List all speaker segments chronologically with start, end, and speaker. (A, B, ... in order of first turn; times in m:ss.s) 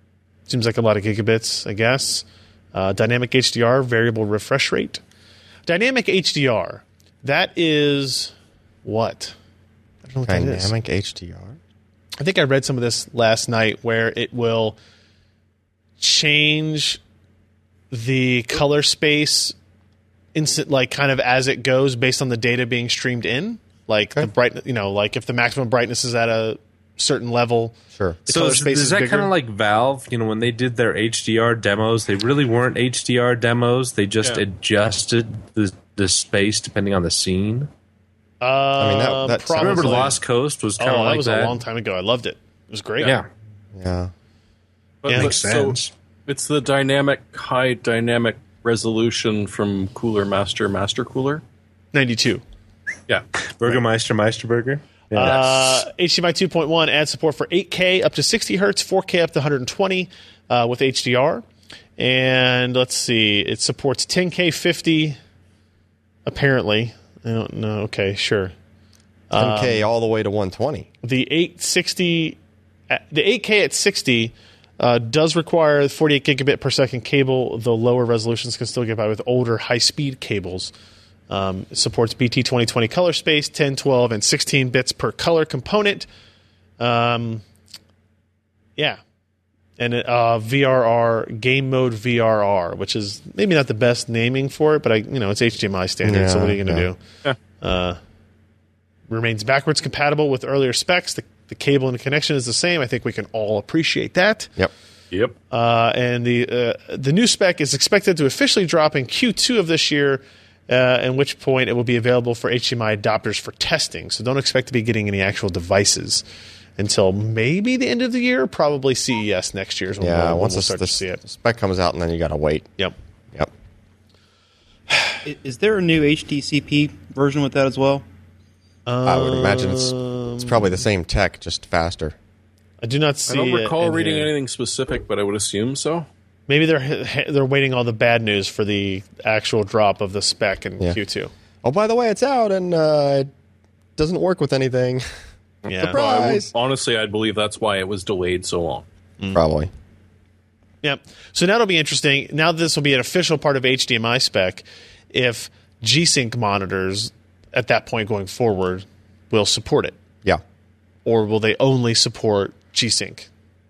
0:00.5-0:05.0 A
0:05.6-0:08.3 A
0:08.8-0:09.3 A
0:10.0-0:10.7 A
0:10.2-0:11.6 B
0:12.2-0:14.8 A
0:16.0-0:17.0 A
0:17.9-0:19.5 A
0:20.3-0:29.3 A
0:28.3-0:37.7 C
0:38.4-0:40.2 A
0:38.8-0:40.1 B
0:39.6-0:41.6 C
0:40.8-0:43.1 A
0:43.7-0:44.1 B
0:45.0-0:51.4 D
0:45.1-0:45.9 C
0:45.1-0:45.3 A
0:51.9-0:52.4 A
0:53.6-0:55.8 C
0:55.2-1:01.4 A
1:02.0-1:05.2 A
1:06.2-1:08.5 A
1:09.3-1:09.8 A
1:09.3-1:10.9 B
1:11.0-1:12.4 A
1:12.9-1:20.7 A
1:21.3-1:26.0 A
1:26.8-1:27.4 A
1:29.8-1:37.0 A
1:36.0-1:36.9 B
1:37.6-1:38.0 A
1:39.1-1:44.5 A
1:45.1-1:45.4 D
1:45.5-1:56.2 A
1:56.8-2:01.2 A
2:00.0-2:02.7 B
2:04.9-2:05.2 A
2:05.2-2:08.0 E
2:08.9-2:10.7 A
2:09.0-2:12.1 B
2:12.8-2:14.3 A
2:13.3-2:16.1 D
2:16.5-2:21.3 A
2:21.6-2:23.3 B
2:24.0-2:25.0 B
2:25.6-2:26.3 A
2:25.8-2:28.8 D
2:25.8-2:26.5 B
2:29.3-2:29.7 B
2:30.8-2:40.0 A
2:41.0-2:43.3 A